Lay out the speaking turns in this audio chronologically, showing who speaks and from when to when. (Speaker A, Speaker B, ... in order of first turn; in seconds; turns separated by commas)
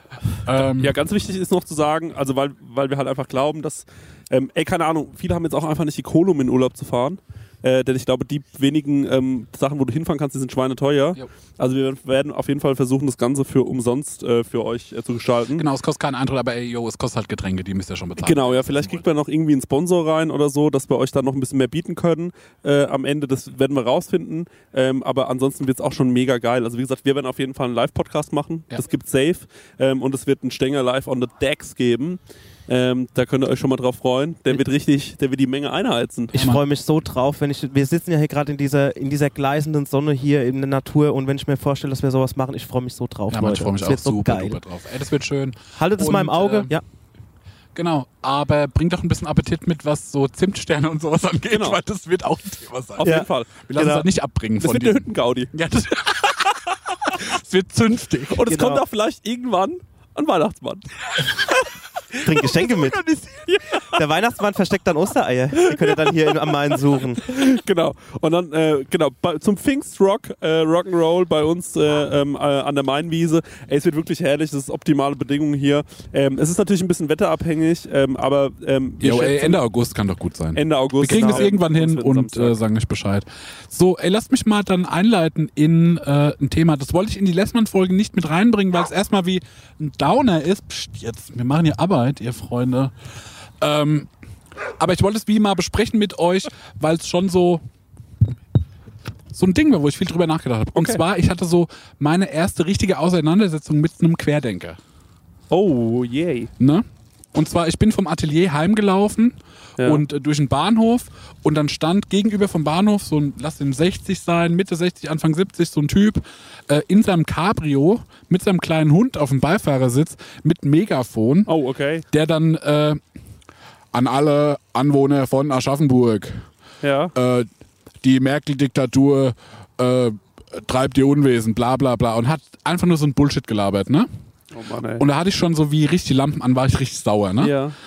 Speaker A: 0.5-0.9, Speaker B: 0.5-15.6, Speaker A: 15.5-19.1, Speaker B: 18.2-36.5, Speaker A: 36.3-36.6, Speaker C: 36.4-44.6, Speaker A: 43.3-46.7, Speaker C: 45.8-46.8, Speaker A: 47.7-58.5, Speaker B: 51.5-51.8, Speaker B: 53.0-53.6, Speaker C: 53.0-54.0, Speaker B: 54.6-55.5, Speaker B: 58.3-61.5, Speaker C: 58.5-58.8, Speaker C: 62.2-63.0, Speaker B: 62.4-63.9, Speaker C: 63.9-67.2, Speaker B: 65.6-66.5, Speaker B: 67.2-79.6, Speaker A: 79.0-92.9, Speaker B: 80.5-82.6, Speaker C: 81.0-81.5, Speaker A: 93.6-94.1, Speaker A: 94.8-97.6, Speaker A: 99.3-104.8, Speaker B: 100.8-101.0, Speaker B: 105.5-106.5, Speaker A: 106.6-121.5, Speaker B: 109.8-110.0, Speaker B: 121.5-122.0, Speaker A: 122.1-123.0, Speaker A: 123.9-126.5, Speaker B: 126.8-127.1, Speaker A: 127.1-127.5, Speaker A: 128.0-134.1, Speaker B: 134.5-135.0, Speaker A: 135.0-137.6, Speaker B: 137.4-137.7